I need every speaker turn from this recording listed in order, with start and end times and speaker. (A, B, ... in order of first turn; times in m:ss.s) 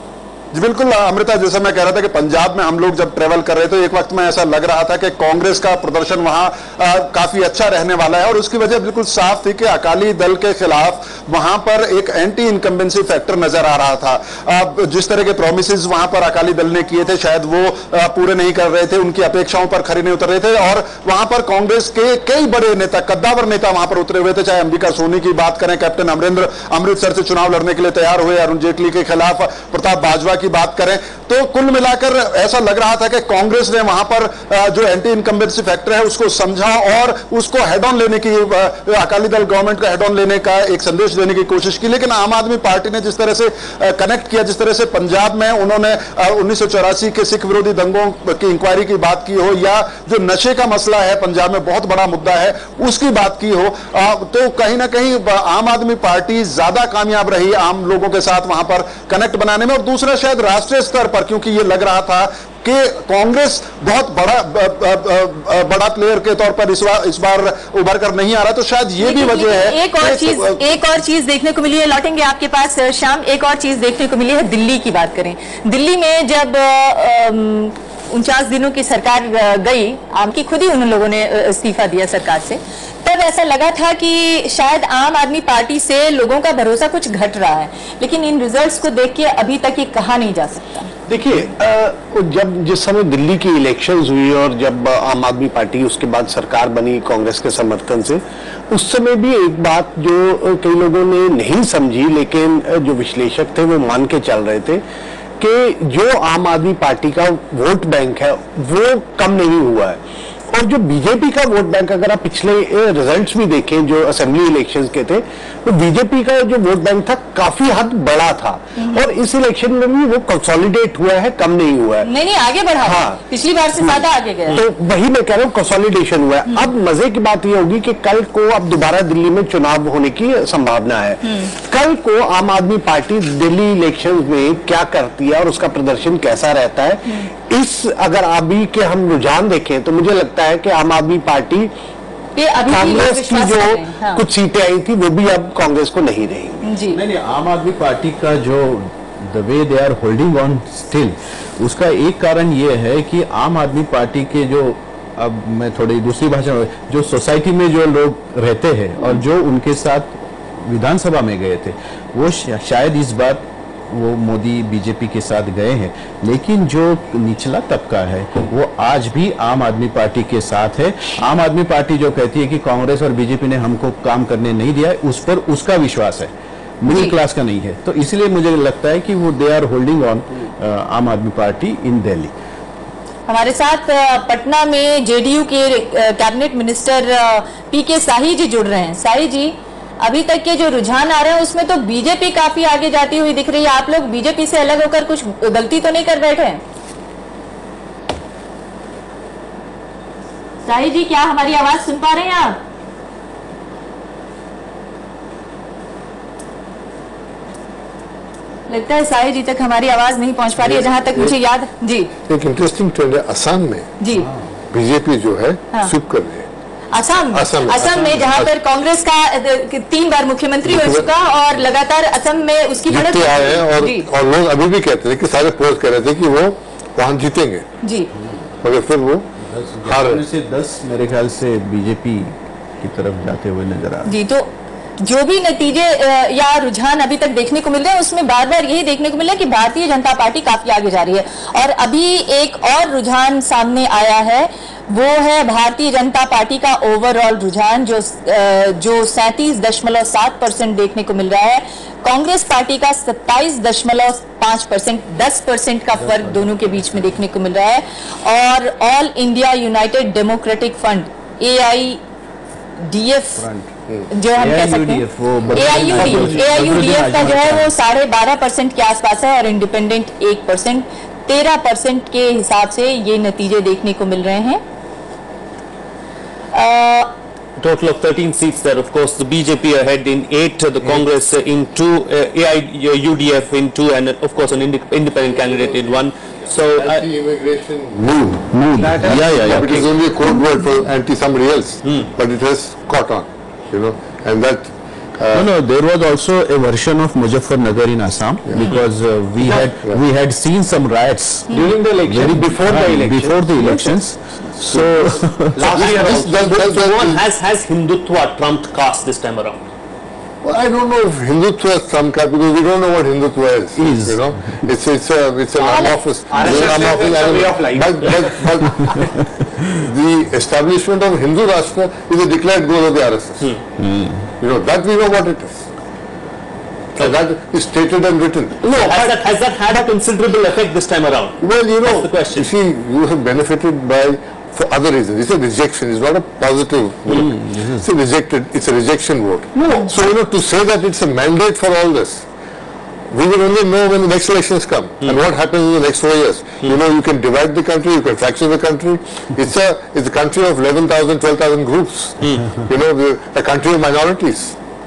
0:00.5-1:10.6 A
1:09.0-1:30.9 B
1:31.1-1:44.8 C
1:45.4-2:02.1 C
2:02.0-2:04.6 B
2:02.8-2:03.2 C
2:03.8-2:21.7 C
2:22.4-2:24.2 B
2:22.7-2:26.7 C
2:26.6-2:27.0 B
2:26.9-3:02.3 D
3:03.3-3:16.6 B
3:20.6-3:22.6 B
3:28.7-3:32.1 B
3:30.6-3:31.4 E
3:32.2-3:33.9 E
3:34.0-3:34.3 B
3:34.2-3:34.5 D
3:34.7-3:36.5 E
3:36.9-3:44.1 B
3:37.3-3:38.5 E
3:40.7-3:41.1 E
3:42.9-3:47.6 E
3:47.8-3:48.1 B
3:48.6-3:49.3 E
3:49.4-3:54.1 D
3:49.8-3:50.3 E
3:54.1-4:22.0 B
4:16.0-4:17.1 D
4:22.8-4:23.4 B
4:23.4-4:23.7 D
4:24.1-4:34.6 B
4:24.3-4:27.7 D
4:25.9-4:26.3 C
4:36.5-4:37.1 B
4:37.6-4:47.1 F
4:45.3-4:46.1 E
4:46.7-4:55.5 E
4:48.2-4:49.9 D
4:48.8-4:49.8 C
4:55.3-5:05.7 D
4:58.5-4:58.7 E
4:59.6-5:00.0 E
5:01.5-5:04.1 C
5:04.6-5:06.7 C
5:05.6-5:07.2 E
5:05.6-5:09.7 F
5:10.4-5:19.1 E
5:13.8-5:14.6 D
5:15.6-5:18.4 C
5:18.7-5:19.4 D
5:19.7-5:23.5 E
5:23.8-5:24.3 D
5:24.4-5:25.7 E
5:27.0-5:28.6 E
5:28.6-5:29.2 C
5:28.7-5:32.5 F
5:31.4-5:42.3 E
5:37.2-5:37.8 D
5:43.1-5:54.6 E